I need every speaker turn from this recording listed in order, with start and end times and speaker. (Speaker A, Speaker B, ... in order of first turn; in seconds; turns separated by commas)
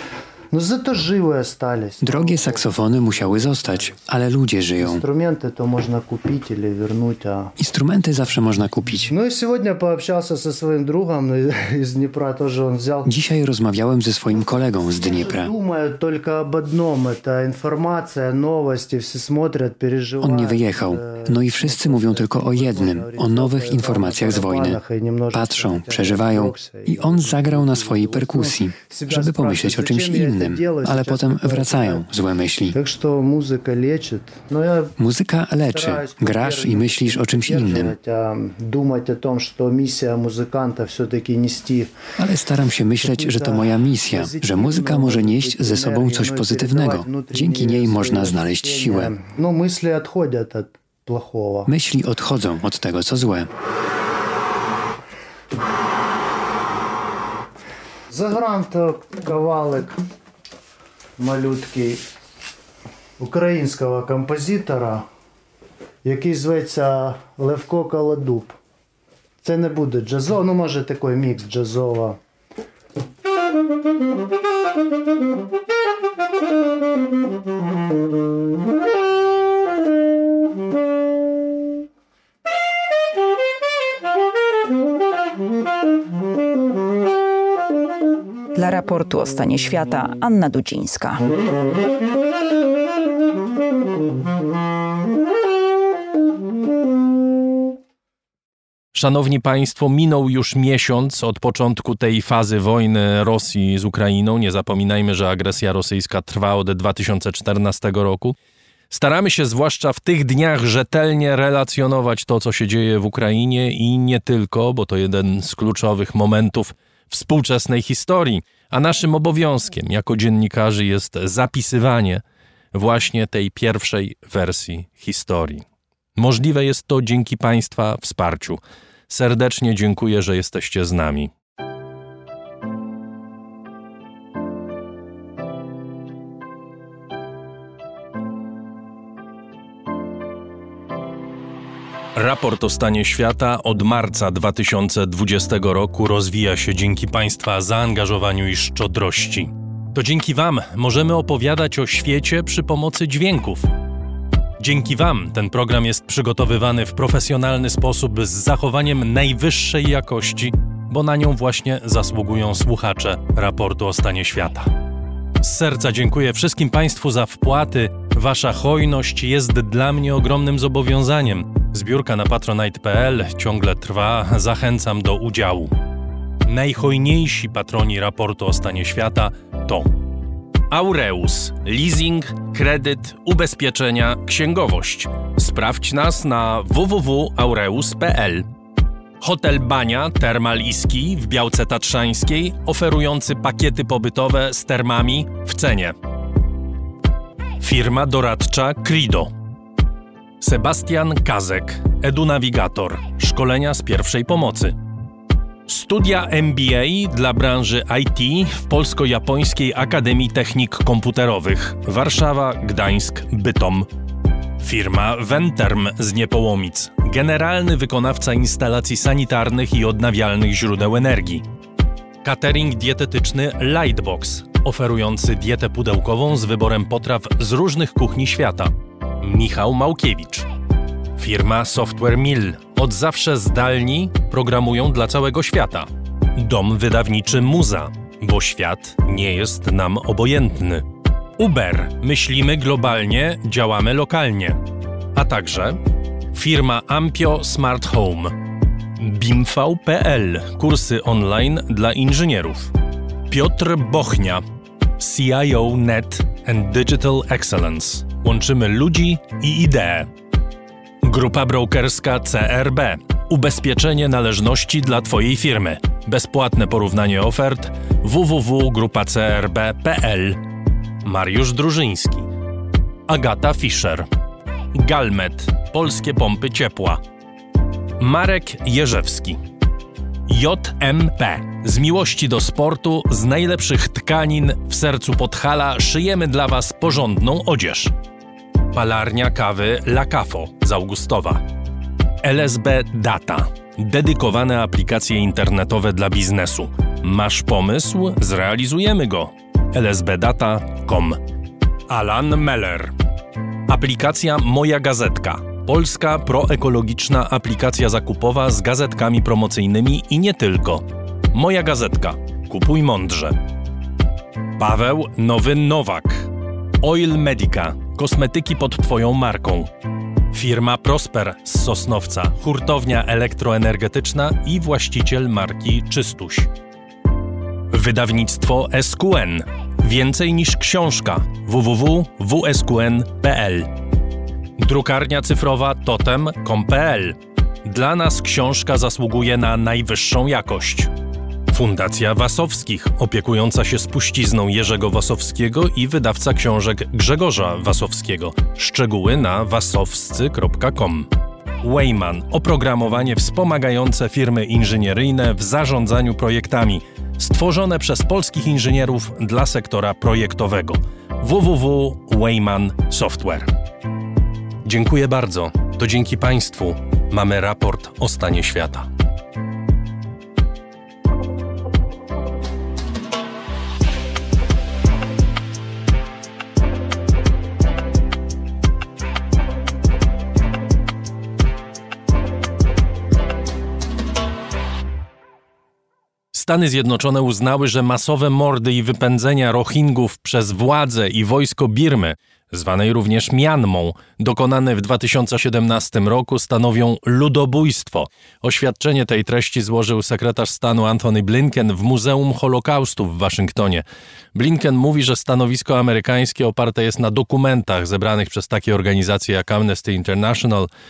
Speaker A: 0.5-4.0, Speaker B: 2.0-5.0, Speaker A: 4.8-7.5, Speaker B: 7.6-9.1, Speaker A: 9.1-13.1, Speaker B: 13.1-15.5, Speaker A: 14.3-32.1, Speaker B: 20.2-32.8, Speaker A: 32.7-35.0, Speaker B: 35.0-37.9, Speaker A: 35.5-41.9, Speaker B: 42.2-49.1, Speaker A: 43.0-51.7, Speaker B: 51.7-53.5, Speaker A: 58.1-60.0, Speaker A: 61.2-62.0, Speaker A: 63.2-65.0, Speaker A: 66.0-68.6, Speaker A: 69.4-72.2, Speaker C: 88.5-91.2, Speaker D: 98.9-108.3, Speaker D: 108.9-122.2, Speaker D: 122.7-125.6, Speaker D: 126.2-131.3, Speaker D: 142.1-153.7, Speaker D: 154.6-164.7, Speaker D: 165.4-175.7, Speaker D: 176.4-179.9, Speaker D: 180.7-188.4, Speaker D: 189.2-195.9, Speaker D: 197.6-199.3, Speaker D: 200.4-204.7, Speaker D: 205.7-213.9, Speaker D: 214.6-221.4, Speaker D: 222.2-230.5, Speaker D: 231.2-240.8, Speaker D: 241.4-244.6, Speaker D: 245.1-245.8, Speaker D: 246.3-248.4, Speaker D: 249.0-252.7, Speaker D: 253.3-254.4, Speaker D: 255.0-260.1, Speaker D: 261.0-270.4, Speaker D: 271.0-272.3, Speaker D: 273.1-274.1, Speaker D: 274.7-277.0, Speaker D: 278.0-279.4, Speaker D: 280.3-287.9, Speaker D: 288.7-291.4, Speaker D: 292.2-301.2, Speaker D: 301.9-302.9, Speaker D: 303.7-313.4, Speaker D: 314.6-316.3, Speaker D: 316.8-319.7, Speaker D: 320.3-326.5, Speaker D: 327.7-333.7, Speaker D: 334.6-340.9, Speaker D: 341.5-351.1, Speaker D: 351.6-363.5, Speaker D: 364.6-368.9, Speaker D: 386.3-410.7